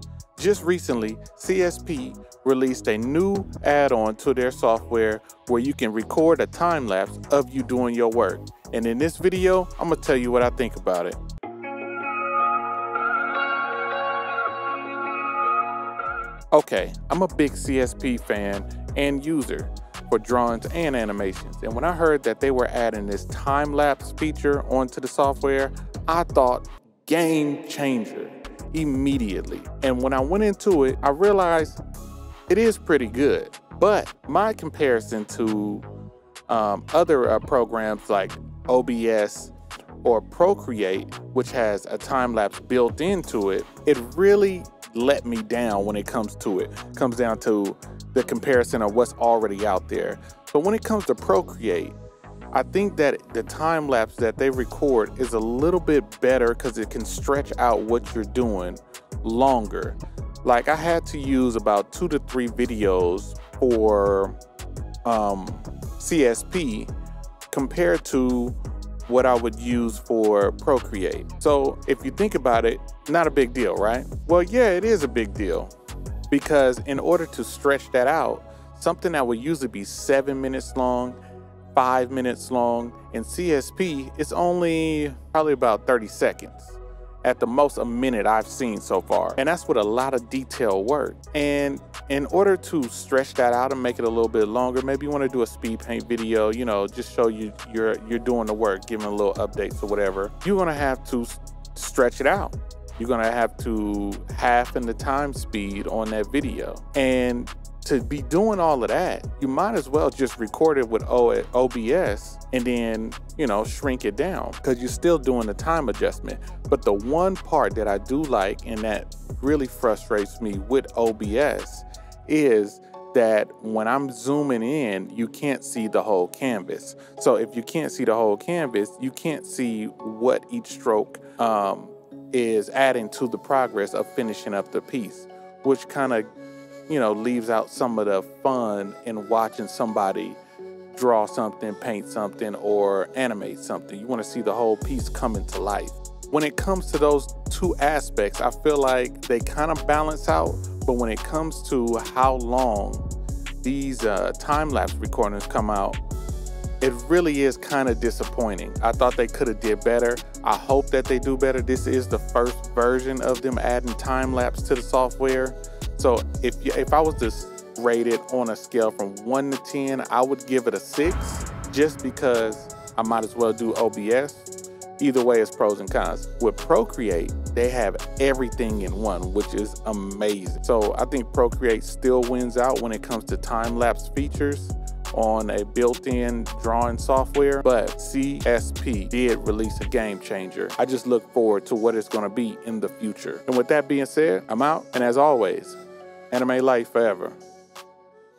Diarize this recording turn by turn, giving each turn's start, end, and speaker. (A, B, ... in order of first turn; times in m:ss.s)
0:00.4-0:11.2 A
0:16.5-0:31.8 A
0:32.5-0:35.8 A
0:36.5-0:52.0 A
0:52.5-1:04.4 A
1:05.0-1:06.9 A
1:07.5-1:15.7 A
1:16.3-1:21.2 A
1:21.7-2:16.3 A
2:16.9-2:20.4 A
2:20.9-2:33.1 A
2:33.6-2:36.0 A
2:36.8-3:15.8 A
3:16.3-3:17.4 A